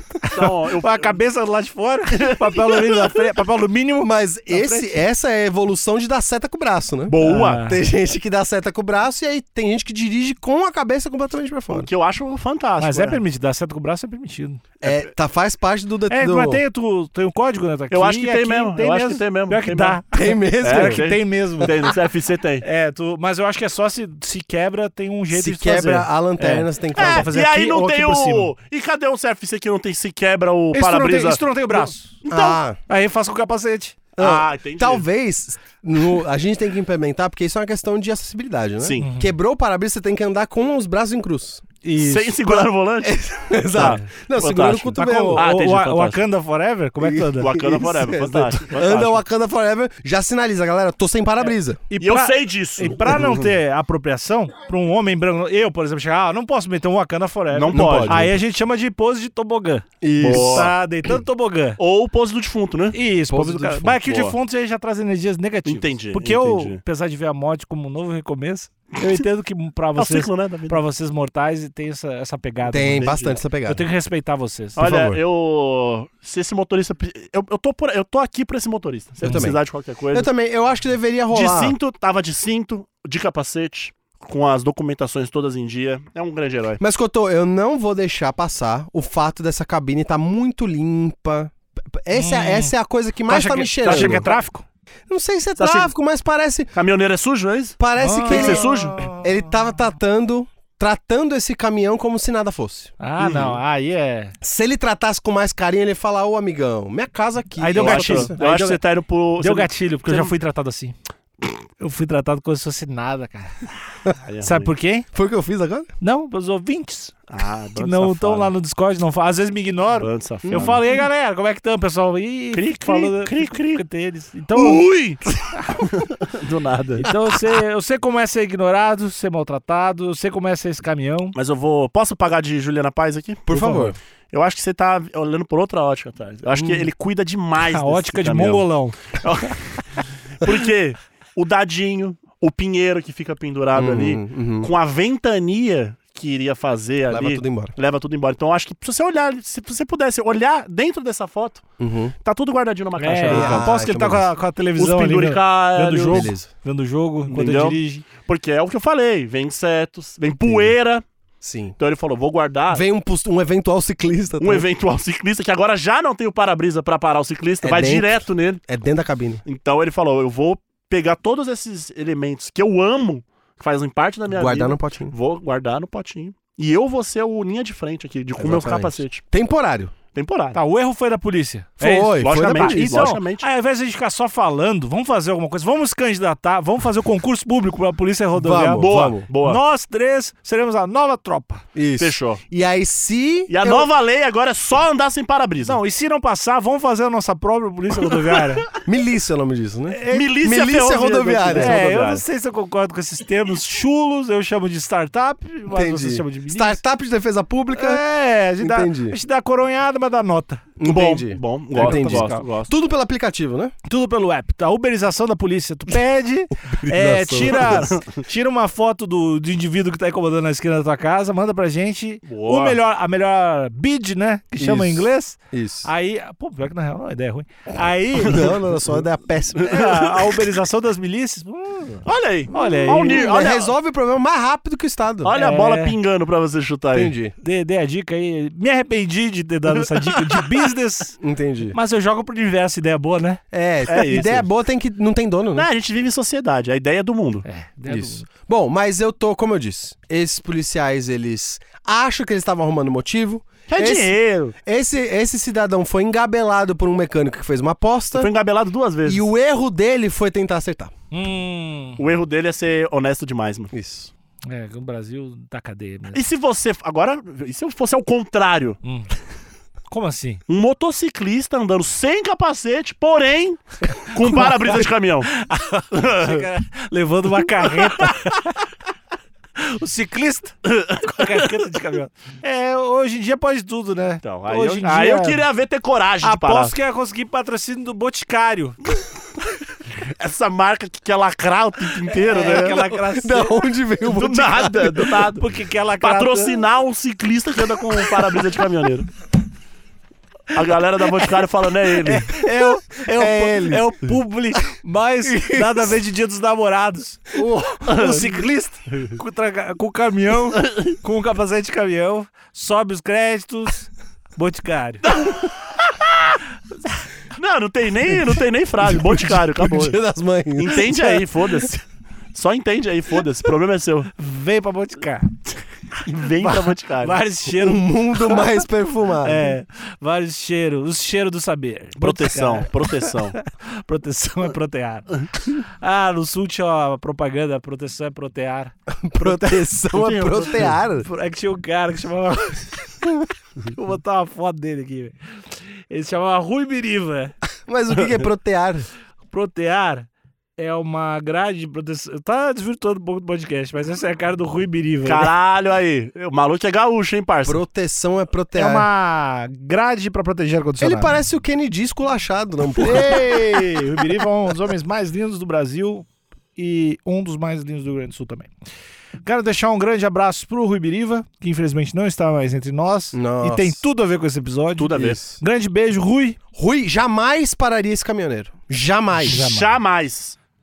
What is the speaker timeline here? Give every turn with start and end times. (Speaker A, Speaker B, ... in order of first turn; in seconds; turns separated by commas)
Speaker A: 0.2-4.9, Speaker B: 0.3-1.2, Speaker B: 2.1-3.2, Speaker C: 4.0-11.9, Speaker B: 7.1-7.6, Speaker A: 7.2-7.8, Speaker B: 11.7-13.2, Speaker A: 12.8-14.6, Speaker C: 14.8-16.6, Speaker A: 16.1-21.8, Speaker B: 17.9-20.0, Speaker C: 20.1-21.1, Speaker B: 20.6-22.6, Speaker A: 22.6-28.5, Speaker C: 25.3-27.3, Speaker B: 27.0-32.6, Speaker A: 30.7-32.2, Speaker C: 32.3-32.8, Speaker A: 32.9-34.0, Speaker C: 34.2-41.7, Speaker B: 34.2-35.0, Speaker B: 38.8-39.1, Speaker A: 39.0-39.3, Speaker A: 41.8-42.6, Speaker B: 42.0-43.2, Speaker C: 43.0-45.4, Speaker B: 43.7-46.2, Speaker A: 43.8-44.0, Speaker A: 45.0-47.6, Speaker C: 47.0-51.8, Speaker B: 47.4-49.2, Speaker A: 51.9-61.8, Speaker B: 52.0-53.2, Speaker C: 53.1-53.4, Speaker B: 57.5-58.3, Speaker C: 57.7-58.4, Speaker C: 60.0-60.7, Speaker B: 60.2-60.7, Speaker B: 61.8-63.0, Speaker A: 62.9-73.2, Speaker C: 63.3-64.0, Speaker B: 63.9-64.4, Speaker B: 65.7-66.8, Speaker B: 70.0-70.8, Speaker C: 72.7-73.8, Speaker B: 72.9-73.4, Speaker A: 73.7-74.8, Speaker B: 74.8-80.3, Speaker C: 74.8-75.2, Speaker C: 79.2-79.6, Speaker C: 80.1-81.8, Speaker B: 81.3-86.8, Speaker C: 86.8-94.3, Speaker A: 92.2-92.7, Speaker A: 93.3-94.6, Speaker B: 93.8-94.4, Speaker C: 95.1-96.7, Speaker B: 95.6-95.9, Speaker B: 96.7-99.0, Speaker C: 97.8-102.9, Speaker A: 98.0-99.5, Speaker A: 103.0-104.3, Speaker B: 103.2-103.6, Speaker C: 104.4-108.4, Speaker A: 107.6-108.8, Speaker B: 107.8-110.3, Speaker A: 109.4-111.0, Speaker A: 111.8-113.6, Speaker B: 114.2-114.7, Speaker A: 114.4-115.1, Speaker C: 115.1-115.9, Speaker A: 116.0-117.2, Speaker B: 117.3-118.5, Speaker A: 117.8-124.8, Speaker B: 120.0-120.8, Speaker C: 120.5-120.7, Speaker B: 122.5-123.8, Speaker B: 124.5-127.1, Speaker A: 127.0-131.4, Speaker B: 131.3-139.8, Speaker C: 133.5-134.0, Speaker C: 136.6-136.9, Speaker A: 137.6-139.0, Speaker B: 140.4-151.7, Speaker C: 143.8-144.7, Speaker C: 147.1-147.7, Speaker C: 151.8-152.2, Speaker B: 152.2-153.7, Speaker A: 153.0-158.1, Speaker C: 153.3-154.3, Speaker B: 154.8-156.3, Speaker C: 156.1-156.5, Speaker B: 157.3-161.0, Speaker C: 160.4-160.7, Speaker C: 161.4-161.8, Speaker B: 161.8-162.8, Speaker C: 162.7-164.7, Speaker B: 164.4-168.6, Speaker C: 167.6-169.4, Speaker B: 169.5-179.2, Speaker C: 174.3-175.1, Speaker C: 178.4-179.9, Speaker B: 180.1-180.6, Speaker A: 180.5-191.7, Speaker C: 181.8-183.1, Speaker B: 182.2-183.5, Speaker C: 188.3-189.3, Speaker B: 188.8-189.6, Speaker C: 191.8-193.9, Speaker B: 192.0-192.4, Speaker B: 193.5-195.8, Speaker A: 195.6-198.7, Speaker B: 198.0-198.5, Speaker C: 198.8-201.8, Speaker A: 199.9-200.3, Speaker B: 200.1-202.2, Speaker A: 201.5-206.8, Speaker C: 205.7-208.0, Speaker A: 207.8-210.7, Speaker C: 208.6-209.2, Speaker C: 210.8-213.7, Speaker B: 210.8-212.7, Speaker A: 211.8-212.5, Speaker A: 213.9-228.6, Speaker C: 216.5-218.0, Speaker B: 217.6-217.9, Speaker B: 222.3-222.8, Speaker C: 224.6-225.9, Speaker C: 228.2-229.8, Speaker B: 229.6-230.1, Speaker A: 229.6-233.3, Speaker B: 232.1-233.7, Speaker C: 232.6-235.4, Speaker B: 235.2-237.2, Speaker A: 235.4-236.0, Speaker C: 236.9-237.3, Speaker A: 237.4-241.2, Speaker B: 240.0-240.4, Speaker C: 241.2-241.8, Speaker A: 241.7-243.4, Speaker C: 243.5-245.7, Speaker B: 243.9-244.5, Speaker B: 245.6-247.4, Speaker A: 247.4-248.3, Speaker C: 247.9-258.3, Speaker B: 253.7-254.5, Speaker B: 258.1-259.3, Speaker C: 259.1-260.9, Speaker A: 261.1-262.0, Speaker B: 262.0-263.7, Speaker C: 263.7-264.1, Speaker A: 264.5-266.2, Speaker B: 266.1-268.8, Speaker A: 268.8-269.1, Speaker A: 269.9-270.4, Speaker B: 270.5-275.3, Speaker A: 274.2-278.6, Speaker B: 275.9-276.5, Speaker B: 277.6-278.1, Speaker A: 279.6-285.4, Speaker B: 280.7-281.6, Speaker B: 284.2-286.7, Speaker A: 286.2-288.8, Speaker B: 290.1-292.9, Speaker A: 292.2-293.6, Speaker C: 292.8-295.2, Speaker B: 294.0-295.5, Speaker A: 295.1-296.6, Speaker B: 296.0-299.1, Speaker B: 300.5-302.3, Speaker A: 302.0-315.1, Speaker C: 302.3-303.9, Speaker C: 305.2-306.0, Speaker C: 307.4-307.9, Speaker B: 307.9-308.3, Speaker B: 310.6-310.9, Speaker B: 315.1-315.9, Speaker B: 317.4-320.0, Speaker C: 318.8-321.7, Speaker B: 320.6-324.1, Speaker A: 324.2-325.6, Speaker B: 326.1-327.2, Speaker A: 326.4-328.4, Speaker C: 327.6-329.5, Speaker A: 329.2-339.6, Speaker B: 332.0-333.4, Speaker C: 338.9-341.1, Speaker B: 339.9-340.7, Speaker A: 341.0-343.1, Speaker A: 343.7-345.1, Speaker A: 345.9-347.4, Speaker C: 347.7-348.9, Speaker B: 347.9-348.2, Speaker A: 349.3-355.3, Speaker B: 355.1-357.6, Speaker C: 357.5-358.9, Speaker A: 358.6-361.1, Speaker C: 360.8-363.9, Speaker A: 362.8-368.5, Speaker A: 369.2-376.4, Speaker C: 373.1-373.8, Speaker B: 374.8-375.2, Speaker C: 376.5-379.4, Speaker A: 379.2-379.7, Speaker B: 379.3-380.4